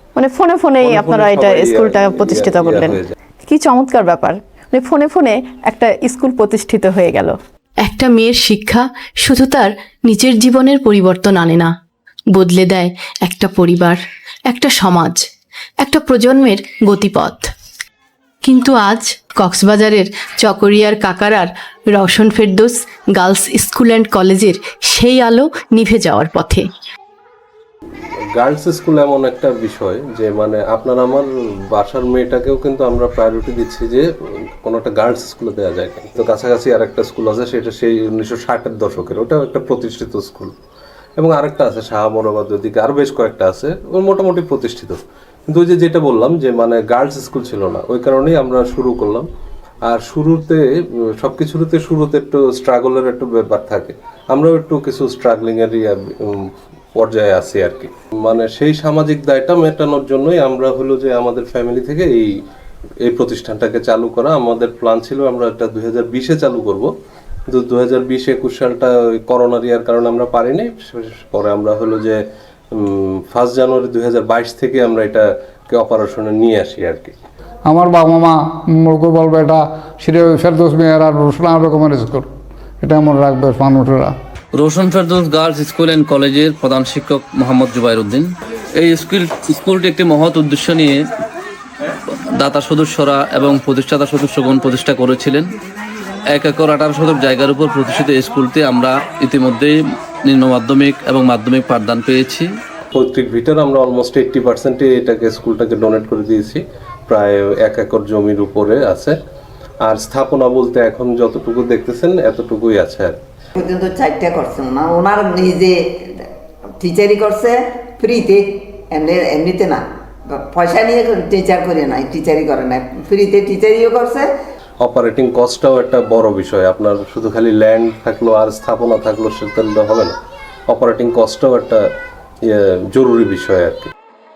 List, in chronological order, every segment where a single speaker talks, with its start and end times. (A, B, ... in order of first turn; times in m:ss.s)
0:00.2-0:07.3 A
0:00.8-0:03.2 B
0:07.8-0:11.7 C
0:12.3-0:15.2 C
0:15.8-0:17.5 C
0:18.4-0:26.6 C
0:28.4-0:34.1 B
0:34.6-0:40.5 B
0:41.2-0:49.2 B
0:49.8-0:56.4 B
0:57.0-1:02.3 B
1:03.0-1:06.9 B
1:07.5-1:12.2 B
1:12.8-1:17.2 B
1:17.7-1:22.2 D
1:22.8-1:24.1 D
1:24.5-1:31.0 E
1:32.3-1:35.5 E
1:36.3-1:39.7 E
1:40.3-1:42.5 E
1:42.9-1:49.2 B
1:49.8-1:53.2 B
1:53.6-2:04.3 F
2:04.8-2:10.1 B
2:10.7-2:11.8 B
2:12.5-2:13.9 B